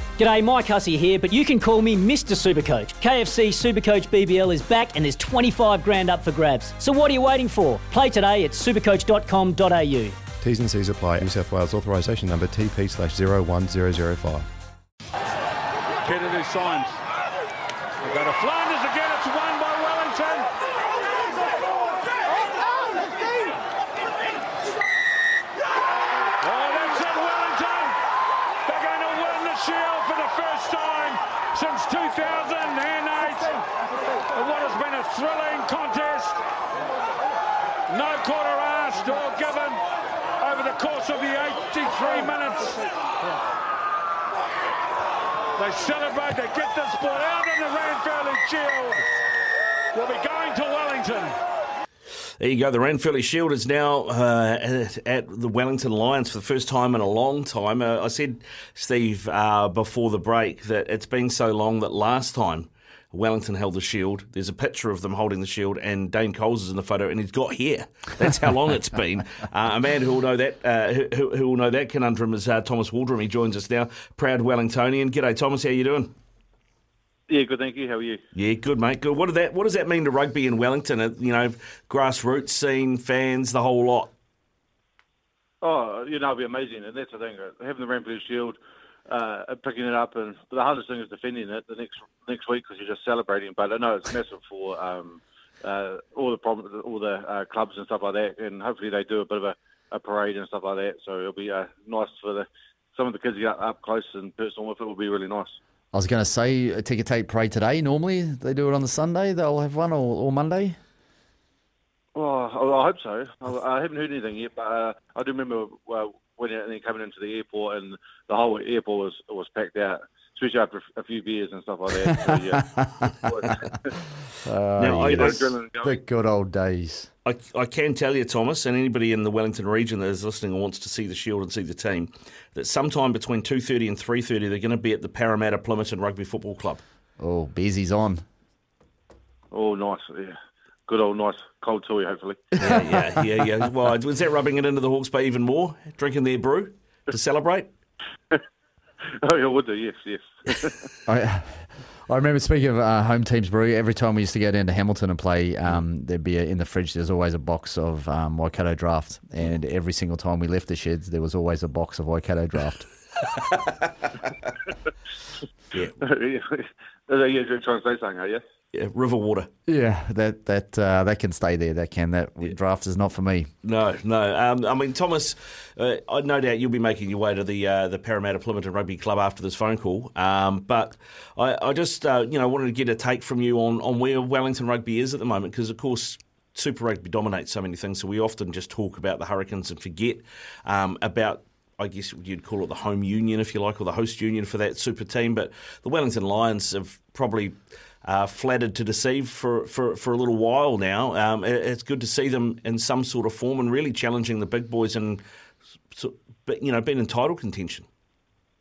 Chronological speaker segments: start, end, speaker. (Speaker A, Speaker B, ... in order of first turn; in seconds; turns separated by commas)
Speaker A: 0.2-10.2, Speaker B: 10.4-14.5, Speaker C: 16.1-16.9, Speaker C: 18.1-20.4, Speaker C: 26.4-27.9, Speaker C: 28.7-33.6, Speaker C: 34.4-36.4, Speaker C: 37.9-39.7, Speaker C: 40.4-42.6, Speaker C: 45.6-49.0, Speaker C: 49.9-51.3, Speaker D: 52.4-76.1, Speaker E: 77.3-78.2, Speaker D: 78.3-84.1, Speaker E: 85.6-105.6, Speaker F: 105.9-110.8, Speaker E: 112.1-123.8, Speaker F: 124.4-127.1, Speaker D: 124.8-125.5, Speaker E: 125.0-126.0, Speaker D: 127.2-136.8, Speaker F: 137.2-138.2, Speaker E: 139.5-142.4, Speaker D: 142.6-147.7, Speaker F: 142.7-143.0, Speaker E: 149.1-150.9, Speaker F: 151.1-162.9, Speaker D: 165.7-166.0, Speaker E: 166.0-168.4, Speaker D: 168.7-169.5, Speaker F: 169.7-173.5, Speaker D: 173.6-205.2, Speaker D: 205.9-207.9